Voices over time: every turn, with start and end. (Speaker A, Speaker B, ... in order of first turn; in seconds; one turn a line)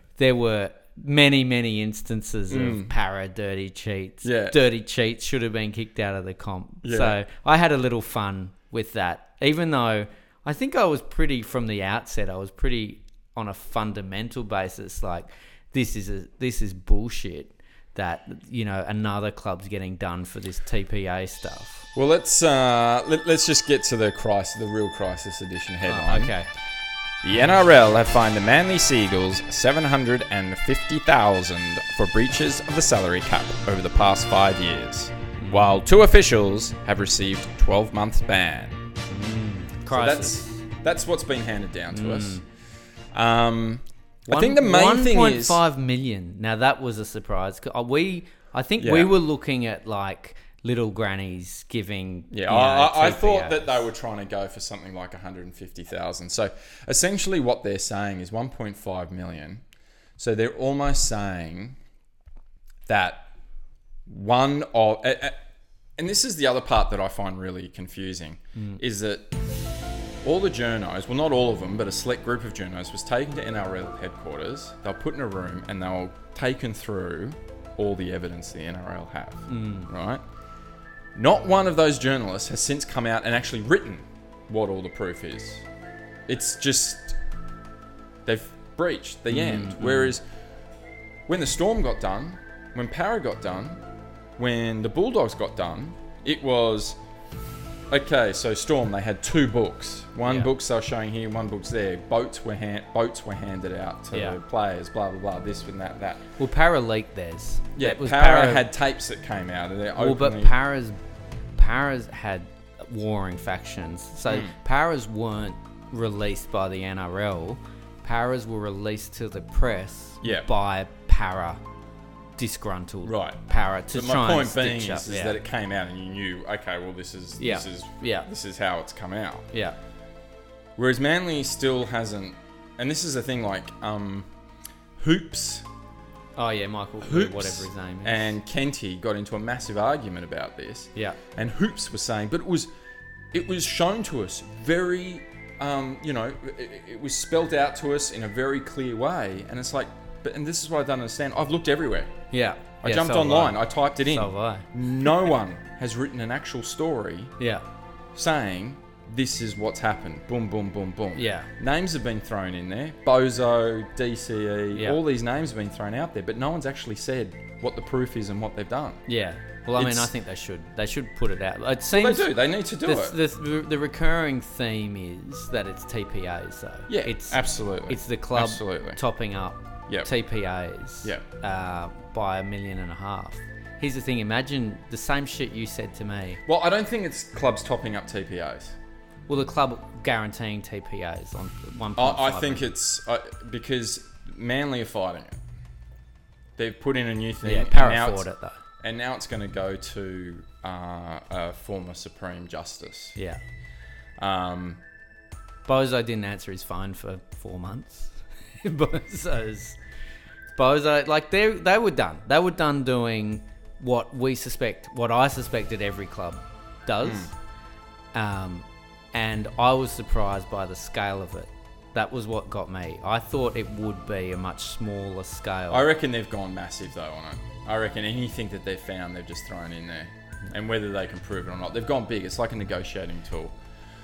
Speaker A: 0.2-21.9
Speaker B: 2.5-2.9
Speaker B: 4.2-4.6
Speaker B: 6.8-7.2
Speaker B: 21.9-26.3
Speaker A: 25.9-26.5
Speaker B: 27.2-38.8
Speaker A: 35.4-35.7
Speaker A: 39.1-40.5
Speaker B: 39.9-42.4
Speaker A: 41.9-42.4
Speaker B: 43.1-45.6
Speaker A: 44.3-53.8
Speaker B: 48.8-49.1
Speaker B: 52.3-59.6
Speaker B: 60.2-61.8
Speaker B: 62.9-63.3
Speaker B: 64.1-65.4
Speaker B: 66.0-69.3
Speaker A: 68.5-68.8
Speaker B: 70.2-80.2
Speaker A: 79.5-79.9
Speaker B: 81.2-85.7
Speaker B: 86.3-87.2
Speaker B: 88.2-90.2
Speaker A: 89.3-90.2
Speaker B: 91.3-93.8
Speaker B: 94.4-97.0
Speaker B: 97.9-106.2
Speaker A: 100.2-100.5
Speaker A: 104.1-104.4
Speaker A: 106.4-108.7
Speaker B: 107.8-110.6
Speaker A: 110.0-111.0
Speaker A: 111.6-121.6
Speaker B: 114.3-114.5
Speaker B: 120.2-120.5
Speaker A: 122.4-125.4
Speaker B: 123.0-123.4
Speaker B: 123.9-129.5
Speaker A: 127.4-128.3
Speaker B: 130.8-134.3
Speaker B: 135.0-135.7
Speaker A: 136.4-138.3
Speaker B: 137.0-142.7
Speaker B: 143.3-152.1
Speaker A: 152.3-154.7
Speaker B: 152.8-157.3
Speaker A: 157.4-157.6
Speaker B: 158.2-169.0
Speaker A: 161.2-161.5
Speaker A: 169.1-186.4
Speaker B: 169.8-170.1
Speaker B: 171.9-173.2
Speaker B: 176.9-179.0
Speaker B: 186.5-188.8
Speaker A: 189.3-192.7
Speaker B: 192.0-195.4
Speaker B: 196.6-198.3
Speaker A: 197.4-198.6
Speaker B: 198.8-203.2
Speaker B: 204.2-204.8
Speaker A: 205.7-209.8
Speaker A: 210.5-217.3
Speaker B: 217.0-217.3
Speaker A: 218.1-225.9
Speaker B: 225.7-233.5